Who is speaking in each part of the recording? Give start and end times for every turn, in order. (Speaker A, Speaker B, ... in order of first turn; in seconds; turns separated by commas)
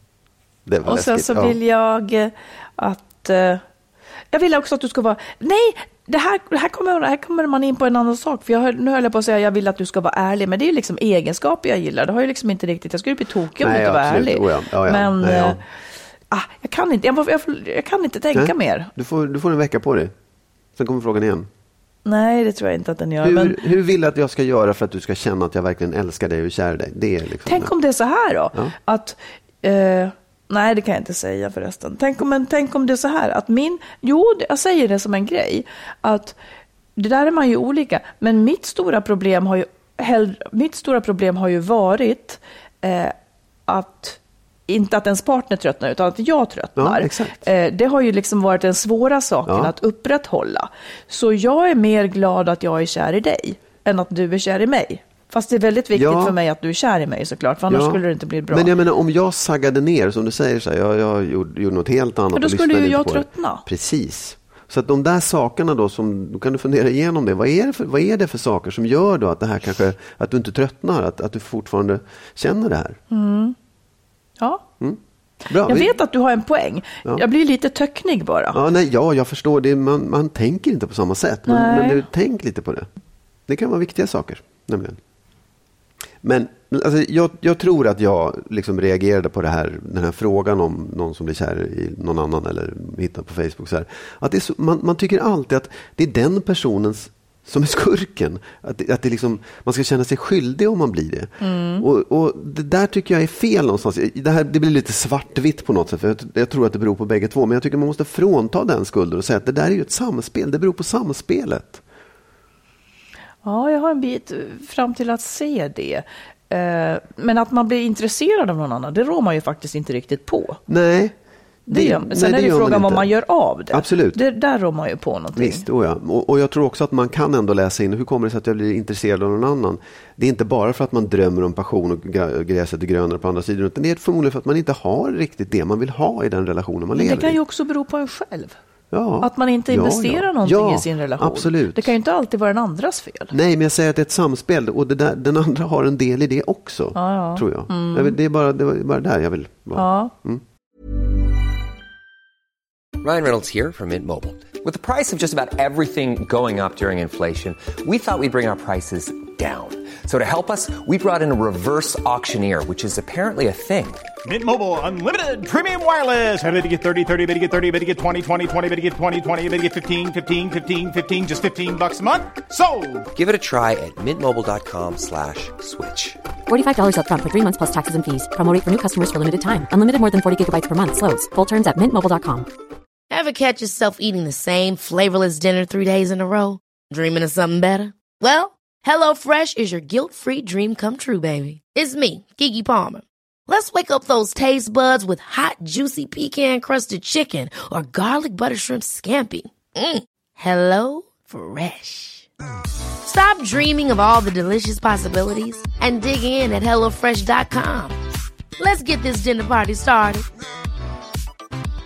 Speaker A: 0.7-1.6, Speaker B: 0.8-3.6, Speaker B: 4.3-15.6, Speaker A: 13.6-15.6, Speaker B: 16.3-18.9, Speaker A: 18.3-20.1, Speaker A: 20.8-21.5, Speaker B: 22.0-23.6, Speaker A: 23.2-27.7, Speaker B: 27.4-36.4, Speaker B: 37.0-43.1, Speaker B: 43.7-58.7, Speaker A: 46.8-47.5, Speaker A: 49.5-49.7, Speaker A: 55.9-56.4, Speaker A: 57.7-73.0, Speaker B: 62.3-63.6, Speaker B: 73.1-73.5, Speaker A: 74.8-75.9, Speaker B: 75.6-78.6, Speaker A: 78.5-82.9, Speaker B: 81.5-82.0, Speaker A: 83.5-85.0, Speaker A: 86.2-111.8, Speaker B: 101.4-101.8, Speaker B: 113.4-120.6, Speaker A: 120.7-121.1, Speaker A: 121.7-123.1, Speaker B: 121.7-125.7, Speaker A: 123.7-124.2, Speaker A: 125.3-137.4, Speaker B: 136.9-138.6, Speaker A: 138.9-141.9, Speaker B: 139.2-143.3, Speaker A: 143.3-150.4, Speaker B: 146.9-148.2, Speaker B: 149.7-150.1, Speaker C: 153.0-164.0, Speaker D: 164.2-173.1, Speaker C: 173.1-176.2, Speaker E: 176.4-182.5, Speaker F: 183.1-202.3, Speaker F: 203.0-207.9, Speaker F: 208.6-210.2